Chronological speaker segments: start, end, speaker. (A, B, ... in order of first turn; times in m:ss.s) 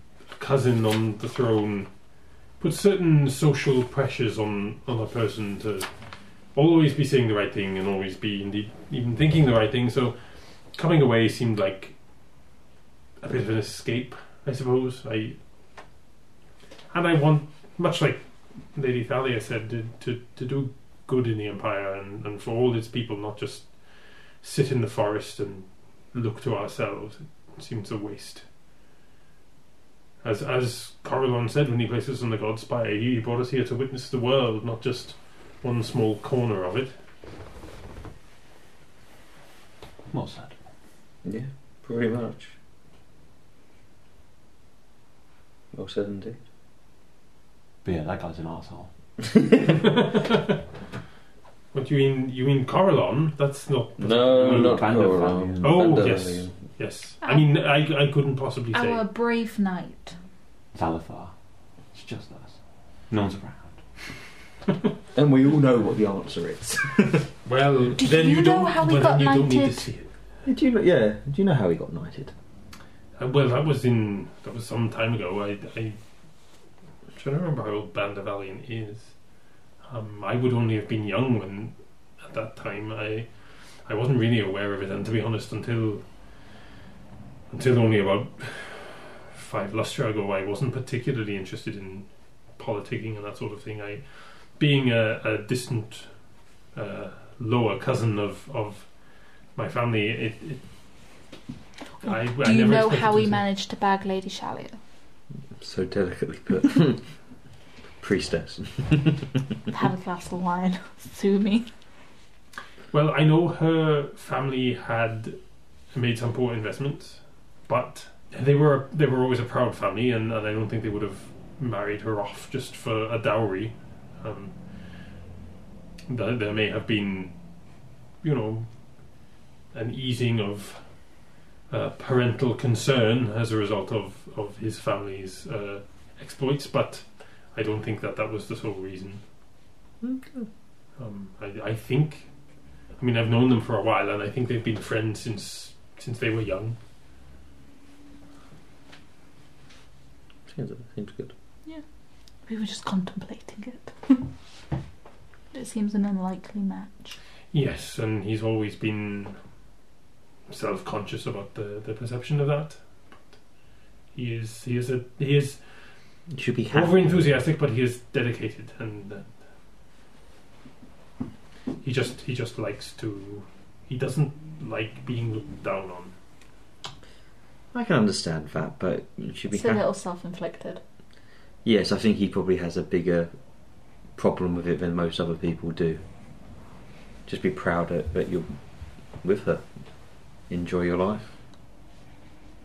0:00.3-0:10.2 A
0:10.7-0:12.0 A
0:13.2-0:15.4 A
0:16.9-0:28.5 A
0:30.2-0:36.9 A
0:40.1-0:40.6 B
0:41.2-0:42.6 C
0:45.7-0:46.4 C
0:47.8-0:48.9 B
0:49.9-0:50.6 A
0:51.7-0:54.9 A
0:54.0-0:56.5 C
0:54.1-0:56.0 B
0:55.6-0:59.0 A
0:57.2-0:57.5 D
0:58.7-1:00.2 D
1:00.7-1:01.3 B
1:01.9-1:03.8 B
1:05.1-1:07.3 C
1:07.4-1:10.1 A
1:08.0-1:09.9 D
1:10.4-1:12.3 C
1:13.2-1:16.0 A
1:17.1-1:23.3 A
1:23.8-1:26.1 A
1:27.5-1:41.1 A
1:42.0-1:43.4 A
1:42.0-1:44.8 D
1:45.6-1:47.4 C
1:48.0-1:49.4 C
1:49.7-1:51.7 D
1:52.9-2:04.6 A
2:06.1-2:07.4 A
2:08.2-2:19.2 A
2:20.0-2:20.5 C
2:21.0-2:22.3 A
2:22.9-2:26.8 A
2:30.5-2:31.3 C
2:32.4-2:34.3 D
2:35.5-2:37.2 D
2:37.5-2:39.4 A
2:40.5-2:43.4 A
2:44.1-2:45.9 A
2:46.3-2:47.2 C
2:46.7-2:49.3 A
2:51.8-2:56.2 A
2:57.7-2:59.8 C
2:59.5-3:00.8 D
3:01.6-3:06.0 C
3:07.3-3:08.6 C
3:09.1-3:09.6 C
3:10.5-3:11.3 C